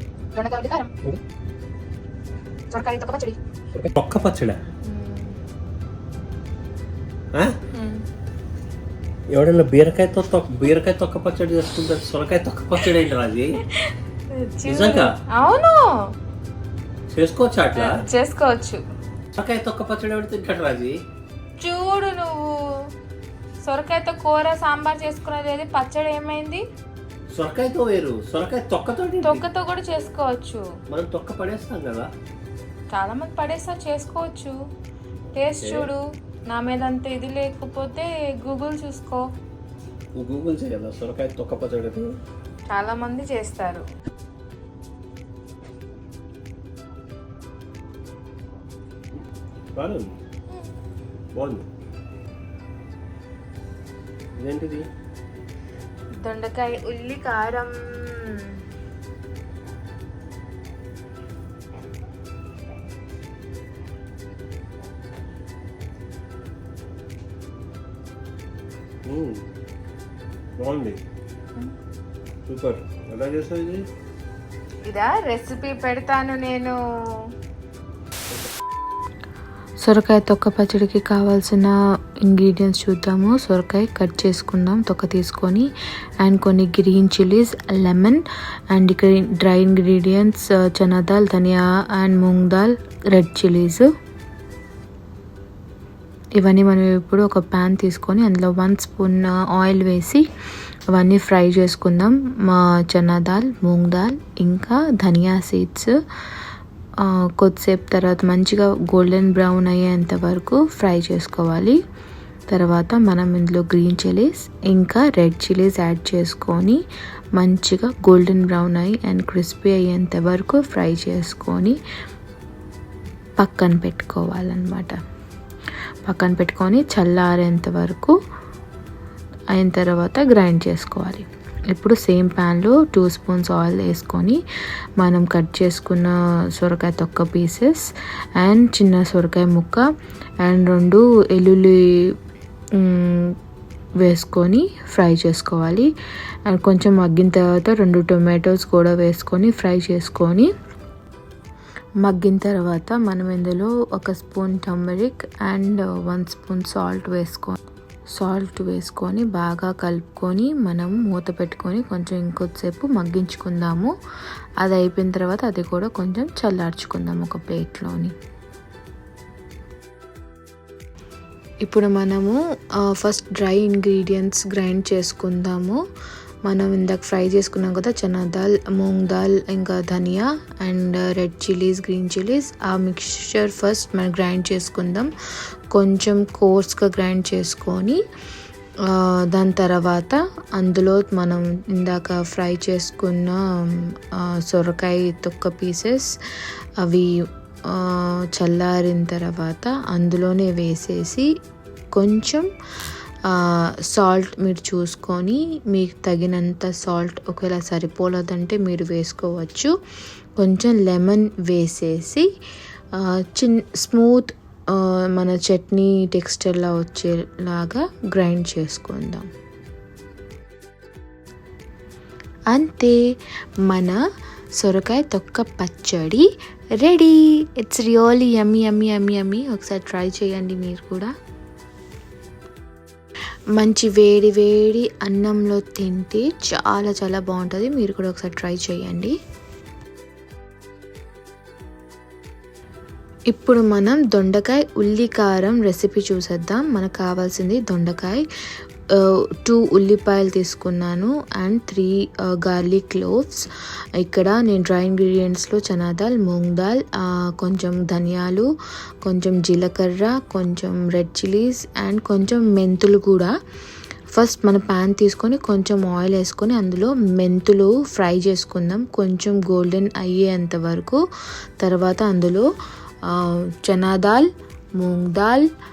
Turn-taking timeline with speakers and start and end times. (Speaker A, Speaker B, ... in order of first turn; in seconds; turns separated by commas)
Speaker A: 0.3-0.9, Speaker A: 2.7-3.4, Speaker B: 3.8-4.6, Speaker A: 4.9-5.4, Speaker A: 7.7-8.0, Speaker B: 9.3-13.6, Speaker A: 13.8-16.0, Speaker B: 14.7-15.1, Speaker B: 17.1-18.0, Speaker A: 17.8-18.8, Speaker B: 19.3-21.0, Speaker A: 21.6-22.8, Speaker A: 23.6-26.6, Speaker B: 27.3-29.4, Speaker A: 29.2-30.7, Speaker B: 30.9-32.1, Speaker A: 32.9-34.5, Speaker A: 35.4-39.2, Speaker B: 35.6-35.9, Speaker B: 40.2-42.1, Speaker A: 42.7-43.9, Speaker B: 49.8-50.1, Speaker B: 51.4-51.6, Speaker B: 54.4-54.9, Speaker A: 56.2-58.6, Speaker B: 69.1-69.4, Speaker B: 70.6-71.0, Speaker B: 72.5-73.8, Speaker A: 74.8-77.3, Speaker C: 79.8-85.7, Speaker C: 86.2-93.9, Speaker C: 96.4-100.2, Speaker C: 100.9-106.0, Speaker C: 107.0-111.8, Speaker C: 112.5-116.8, Speaker C: 117.4-121.8, Speaker C: 123.4-125.0, Speaker C: 126.0-128.2, Speaker C: 129.5-134.4, Speaker C: 135.0-137.9, Speaker C: 138.4-139.9, Speaker C: 140.4-142.2, Speaker C: 142.8-143.4, Speaker C: 144.0-145.9, Speaker C: 146.5-150.5, Speaker C: 152.0-157.6, Speaker C: 158.2-163.9, Speaker C: 164.6-168.1, Speaker C: 171.7-175.8, Speaker C: 176.5-185.1, Speaker C: 185.7-188.0, Speaker C: 188.9-196.1, Speaker C: 196.8-197.1, Speaker C: 197.7-201.3, Speaker C: 201.9-202.5, Speaker C: 203.3-209.7, Speaker C: 210.4-212.3, Speaker C: 212.9-219.3, Speaker C: 222.5-223.0, Speaker C: 223.7-224.0, Speaker C: 224.6-226.3, Speaker C: 226.8-231.1, Speaker C: 233.6-239.1, Speaker C: 243.3-248.2, Speaker C: 249.4-253.5, Speaker C: 254.0-258.5, Speaker C: 259.0-263.3, Speaker C: 264.1-271.0, Speaker C: 271.6-272.5, Speaker C: 273.1-274.3, Speaker C: 274.8-275.4